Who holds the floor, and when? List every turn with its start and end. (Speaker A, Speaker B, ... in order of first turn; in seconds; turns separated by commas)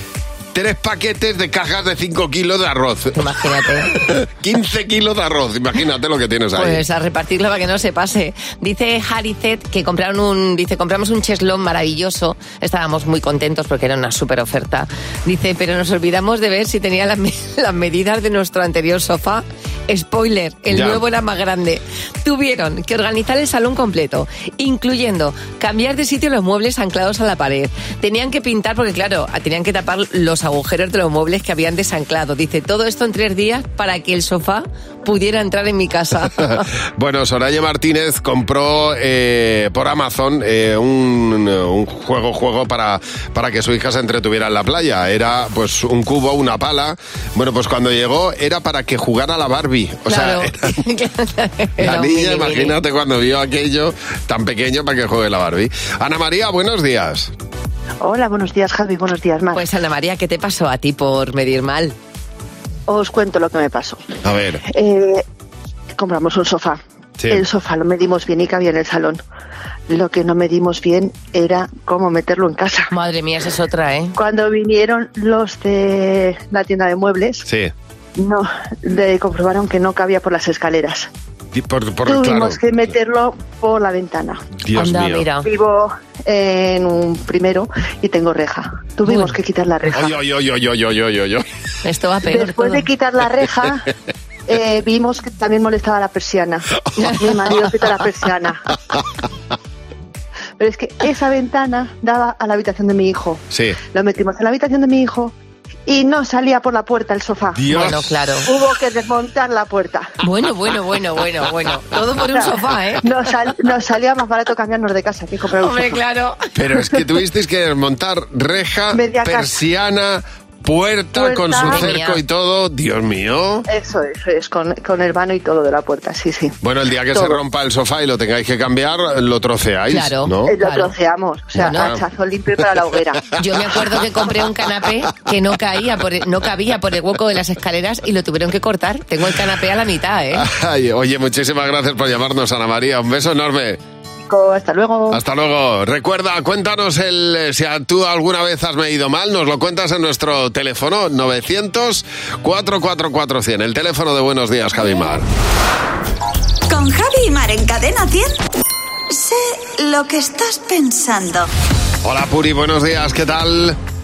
Speaker A: 0.5-3.2, Speaker B: 3.1-3.9, Speaker A: 3.9-6.8, Speaker B: 6.5-36.6, Speaker A: 20.7-21.0, Speaker A: 36.4-50.7, Speaker B: 50.1-52.7, Speaker A: 51.8-57.3, Speaker C: 58.0-59.6, Speaker B: 59.5-61.9, Speaker C: 62.9-64.0, Speaker A: 64.2-64.6, Speaker C: 64.7-65.2, Speaker C: 66.0-69.2, Speaker A: 67.2-67.4, Speaker C: 69.9-72.9, Speaker B: 72.9-74.1, Speaker C: 74.2-77.5, Speaker C: 78.2-81.1, Speaker A: 81.5-82.6, Speaker C: 82.1-84.5, Speaker A: 84.6-85.2, Speaker B: 84.7-85.5, Speaker C: 85.4-90.2, Speaker B: 89.0-89.3, Speaker A: 89.9-91.4, Speaker B: 91.8-92.8, Speaker C: 92.3-93.9, Speaker C: 94.5-98.7, Speaker C: 100.6-105.3, Speaker A: 103.5-103.8, Speaker C: 105.9-107.7, Speaker A: 107.5-108.1, Speaker B: 107.7-108.5, Speaker C: 108.5-110.1, Speaker B: 110.2-113.0, Speaker C: 112.3-116.0, Speaker B: 115.6-116.4, Speaker A: 116.5-123.7, Speaker C: 118.9-119.5, Speaker C: 121.1-121.9, Speaker B: 121.6-122.2, Speaker C: 123.7-126.5, Speaker A: 126.6-130.5, Speaker C: 127.1-127.4, Speaker B: 129.9-130.9, Speaker C: 130.5-133.3, Speaker A: 131.6-132.0, Speaker B: 131.6-131.9, Speaker B: 133.4-140.4, Speaker A: 140.3-143.8, Speaker C: 144.2-145.2, Speaker A: 145.1-155.2, Speaker D: 156.7-158.3, Speaker D: 159.1-161.5, Speaker A: 162.0-163.8